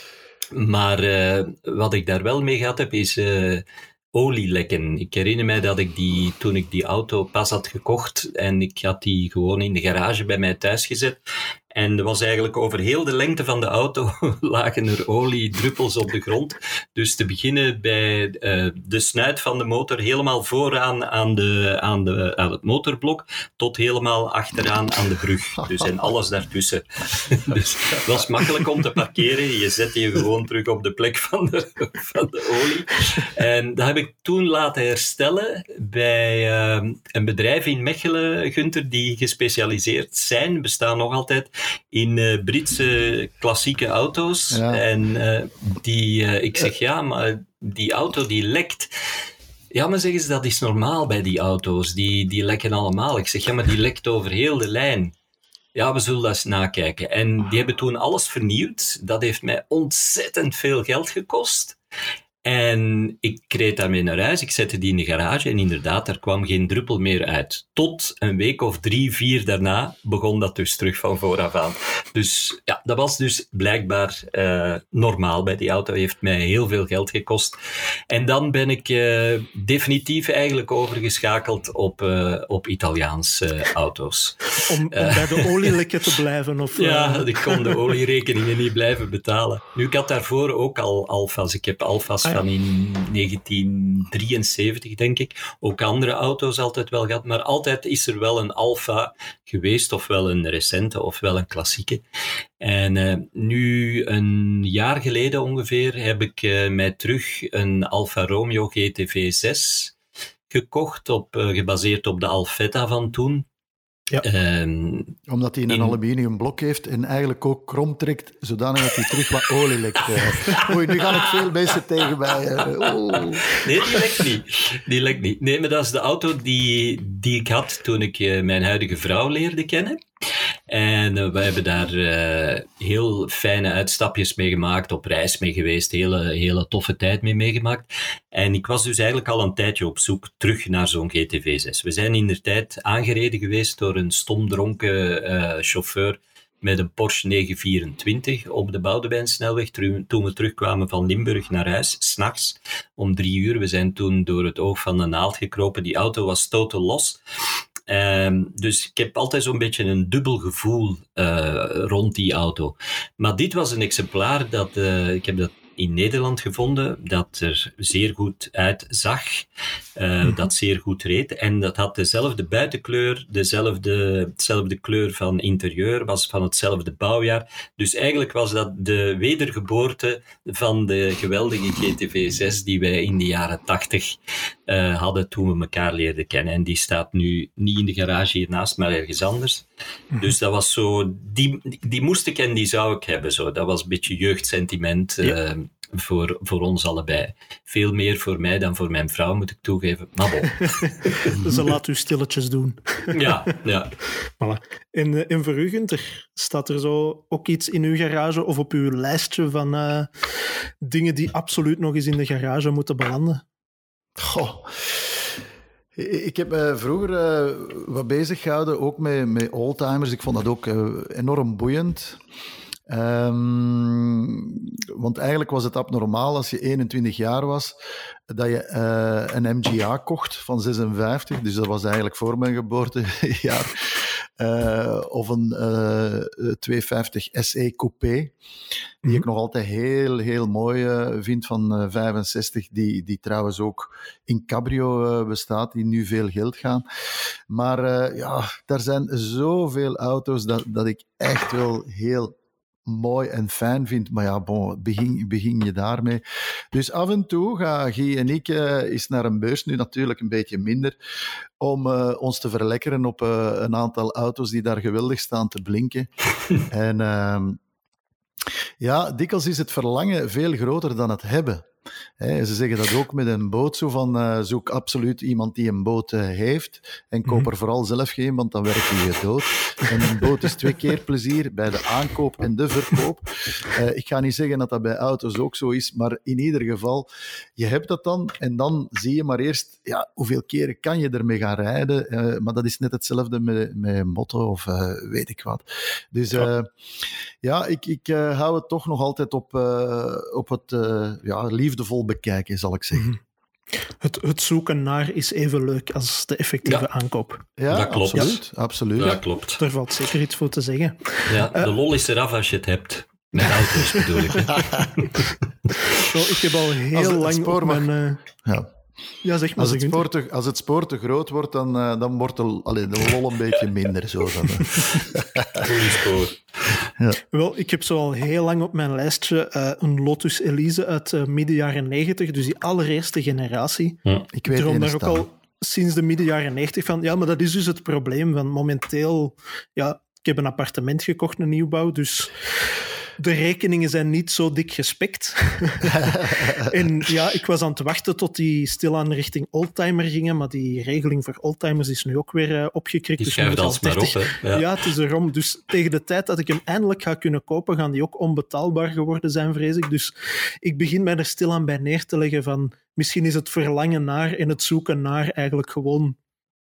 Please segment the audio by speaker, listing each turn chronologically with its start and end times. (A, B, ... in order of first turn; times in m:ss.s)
0:00.5-0:11.2 A
0:11.7-0:48.9 A
0:44.5-0:44.8 B
0:49.7-0:55.1 A
0:55.7-1:01.8 A
1:02.4-1:17.6 A
1:18.1-1:25.8 A
1:24.6-1:27.8 C
1:26.8-1:42.0 A
1:42.6-1:50.0 A
1:50.5-1:53.4 A
1:54.2-1:55.2 A
1:55.3-2:03.6 B
1:55.7-1:56.0 A
2:00.1-2:01.5 A
2:02.6-2:10.0 A
2:10.7-2:37.2 A
2:37.9-3:09.6 A
3:10.2-3:21.3 A
3:20.6-3:23.4 C
3:23.1-3:23.9 A
3:24.4-3:30.3 C
3:30.8-3:33.4 C
3:34.2-3:35.2 B
3:36.0-3:42.2 B
3:42.9-3:47.7 B
3:48.3-3:58.3 B
3:59.0-4:06.8 B
4:07.5-4:12.3 B
4:12.8-4:16.2 B
4:16.7-4:20.9 B
4:21.6-4:26.1 B
4:26.7-4:27.6 B
4:28.8-4:31.7 B
4:32.2-4:56.7 B
4:57.4-5:03.1 B
5:03.9-5:07.5 C
5:07.6-5:09.2 B
5:07.7-5:08.4 A
5:09.0-5:09.6 A
5:09.6-5:11.7 C
5:11.3-5:15.3 A
5:13.7-5:14.6 C
5:14.6-5:14.8 B
5:15.9-5:18.2 C
5:16.9-5:17.9 B
5:19.2-5:20.0 C
5:19.6-5:25.6 B
5:25.5-5:26.8 A
5:27.3-5:42.5 C
5:34.3-5:35.3 B
5:43.2-6:06.2 C
5:45.9-5:46.7 B
5:53.2-5:54.8 A